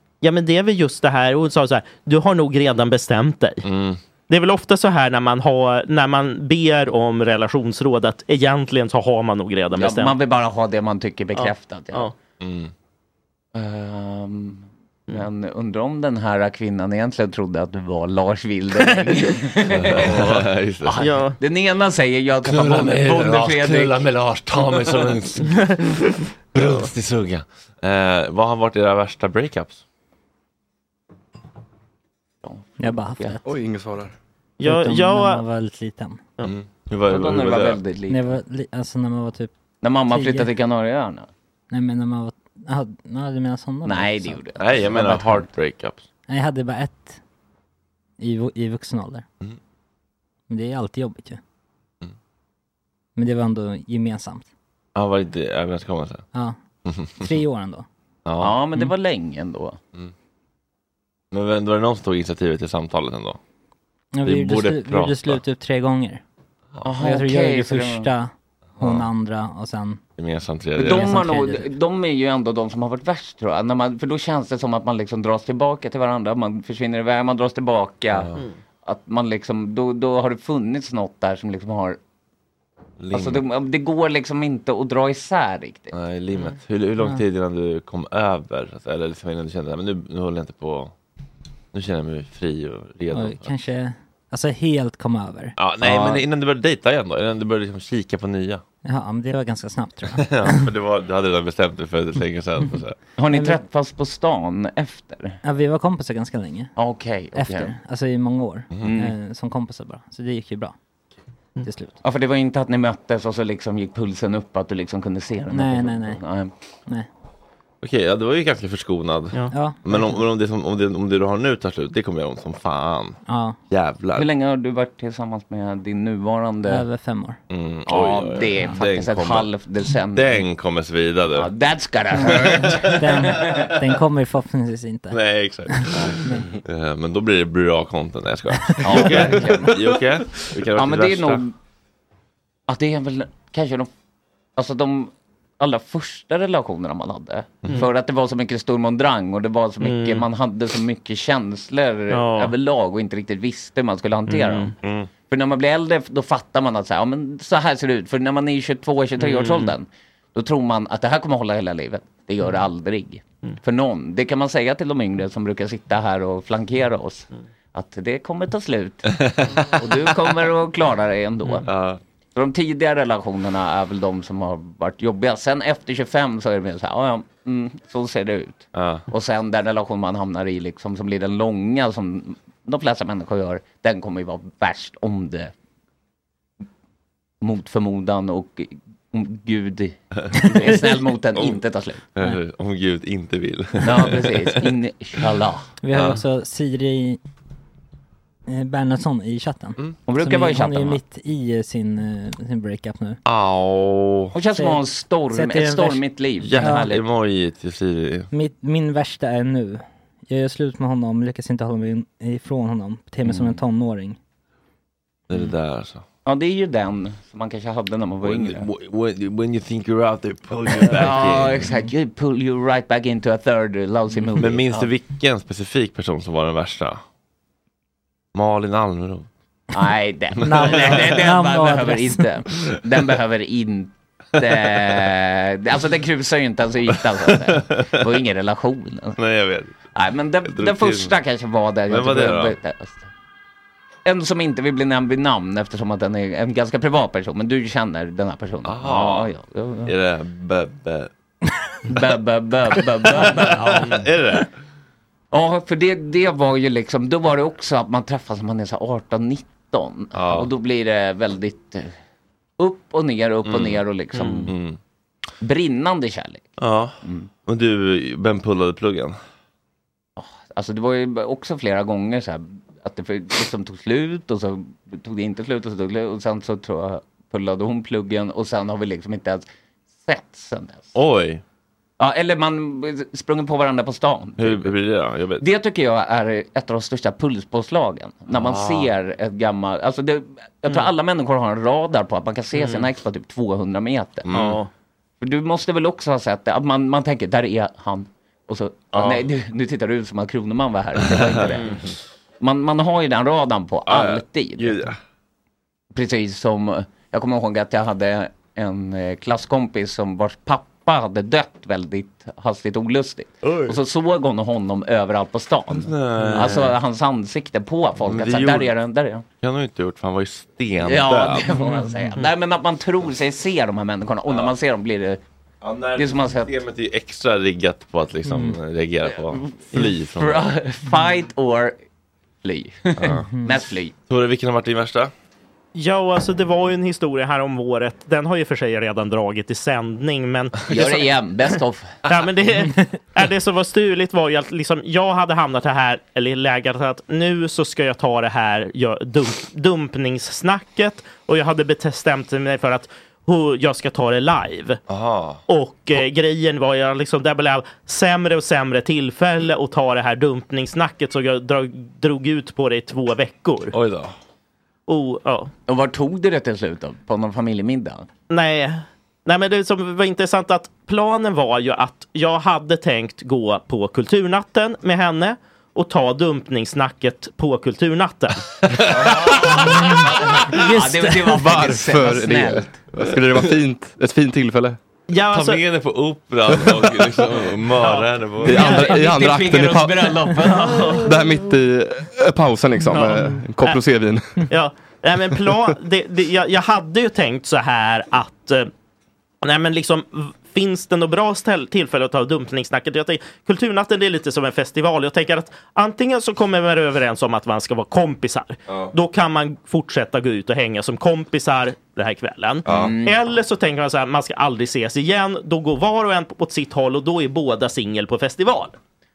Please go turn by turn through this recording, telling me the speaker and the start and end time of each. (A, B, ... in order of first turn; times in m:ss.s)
0:00.2-0:03.6 A
0:03.6-0:04.0 B
0:04.3-0:10.2 A
0:09.8-0:12.1 C
0:11.4-0:12.1 A
0:12.4-0:12.7 B
0:13.6-0:24.0 C
0:18.8-0:19.3 A
0:19.7-0:21.0 B
0:21.0-0:21.4 A
0:22.4-0:25.6 B
0:25.5-0:26.9 A
0:26.5-0:29.8 B
0:32.4-0:33.4 C
0:32.8-0:33.4 D
0:33.4-0:34.1 E
0:34.6-0:35.4 A
0:34.6-0:36.2 D
0:36.4-0:37.8 B
0:37.1-0:38.4 C
0:38.1-0:39.5 D
0:39.8-0:41.3 C
0:40.1-0:40.5 D
0:41.7-0:44.4 D
0:43.8-0:45.5 C
0:44.6-0:46.0 B
0:46.3-0:47.2 D
0:48.2-0:49.2 D
0:50.5-0:51.4 D
0:53.2-0:54.5 D
0:55.0-0:56.2 B
0:56.9-0:57.3 B
0:57.2-0:57.9 D
0:58.3-0:58.6 B
0:58.4-0:59.8 C
1:01.3-1:03.4 B
1:04.1-1:06.2 D
1:04.2-1:05.4 B
1:06.8-1:08.1 C
1:07.0-1:10.0 D
1:08.8-1:09.1 B
1:10.2-1:11.2 B
1:10.8-1:18.3 C
1:10.8-1:11.7 D
1:18.1-1:18.4 B
1:18.8-1:22.0 C
1:23.0-1:23.4 B
1:23.1-1:25.9 C
1:25.9-1:30.9 B
1:31.7-1:33.5 B
1:33.1-1:36.2 D
1:35.6-1:38.6 B
1:38.8-1:40.7 D
1:40.1-1:43.0 B
1:43.2-1:45.4 C
1:43.3-1:43.6 D
1:45.4-1:46.7 D
1:46.8-1:47.7 C
1:47.3-1:50.8 D
1:48.8-1:49.1 C
1:51.6-1:52.0 D
1:52.0-1:56.5 C
1:55.5-1:56.2 D
1:57.8-2:03.2 B
1:59.5-2:00.2 D
2:03.3-2:03.6 D
2:03.7-2:04.3 B
2:04.2-2:06.8 C
2:06.7-2:07.4 D
2:07.5-2:09.5 B
2:07.9-2:10.4 C
2:10.1-2:11.5 B
2:11.4-2:13.7 C
2:12.1-2:15.2 D
2:12.2-2:13.4 B
2:15.1-2:21.4 B
2:15.7-2:16.5 D
2:18.7-2:19.1 D
2:18.8-2:21.5 C
2:22.7-2:23.9 C
2:24.6-2:34.7 C
2:29.8-2:30.3 A
2:32.1-2:32.5 A
2:34.3-2:34.7 A
2:34.8-2:35.1 B
2:35.3-2:51.7 C
2:39.2-2:39.8 A
2:49.1-2:49.6 B
2:51.7-2:52.0 B
2:52.4-3:05.5 C
2:58.7-2:59.0 B
3:07.4-3:12.0 C
3:10.2-3:10.5 B
3:12.2-3:14.7 B
3:13.8-3:15.7 C
3:15.8-3:17.2 D
3:15.9-3:16.2 B
3:18.5-3:23.2 D
3:20.1-3:21.0 C
3:23.2-3:24.4 B
3:24.3-3:27.0 C
3:24.6-3:24.8 D
3:25.3-3:26.0 D
3:26.4-3:28.3 B
3:26.6-3:26.9 D
3:28.3-3:34.2 D
3:35.3-3:36.0 B
3:36.3-3:38.7 C
3:38.2-3:41.7 B
3:40.7-3:44.9 C
3:44.3-3:47.0 B
3:48.3-3:49.3 B
3:49.7-3:59.2 C
3:50.4-3:52.2 D
3:50.5-3:51.2 B
3:57.3-3:58.0 B
3:59.2-3:59.7 B
3:59.9-4:03.1 C
4:00.5-4:01.2 B
4:01.9-4:02.6 B
4:04.0-4:09.9 C
4:08.6-4:09.3 B
4:09.9-4:11.1 B
4:11.9-4:14.1 C
4:13.2-4:14.5 B
4:15.3-4:21.9 C
4:20.1-4:20.5 B
4:22.6-4:24.6 C
4:23.4-4:24.8 B
4:25.4-4:26.5 C
4:26.6-4:29.2 B
4:27.0-4:27.3 C
4:30.2-4:39.5 C
4:40.0-4:40.9 C
4:40.9-4:41.4 B
4:42.0-4:44.7 C
4:44.4-4:45.4 B
4:45.4-4:54.3 C
4:48.3-4:48.9 B
4:52.5-4:52.9 A
4:54.3-4:54.6 B
4:54.3-4:54.7 A
4:55.2-5:01.8 C
4:58.9-4:59.3 B
5:01.0-5:01.9 B
5:02.4-5:04.8 C
5:03.9-5:05.0 B
5:05.9-5:19.2 C
5:13.4-5:13.8 B
5:15.8-5:16.8 B
5:18.0-5:18.7 B
5:19.4-5:21.6 B
5:20.8-5:25.2 C
5:24.3-5:24.5 B
5:25.6-5:30.5 B
5:26.0-5:26.5 C
5:28.3-5:28.6 D
5:29.1-5:31.8 C
5:32.4-5:33.9 C
5:33.0-5:33.3 B
5:34.1-5:35.1 B
5:35.8-5:41.1 A
5:40.7-5:41.9 C
5:42.1-5:54.8 A
5:54.9-5:55.4 B
5:55.5-6:03.7 A
6:03.7-6:04.1 B
6:04.9-6:05.5 A
6:05.7-6:08.1 C
6:08.3-6:18.4 A
6:18.7-6:19.3 B
6:18.9-6:22.8 C
6:20.5-6:24.8 E
6:25.1-6:25.6 A
6:25.3-6:28.8 B
6:26.6-6:26.8 E
6:27.8-6:29.0 A
6:28.4-6:34.3 E
6:28.5-6:31.1 C
6:30.4-6:31.1 A
6:32.8-6:33.8 A
6:34.5-6:38.7 A
6:39.4-6:58.8 A
6:52.7-6:52.9 B
6:52.7-6:53.2 C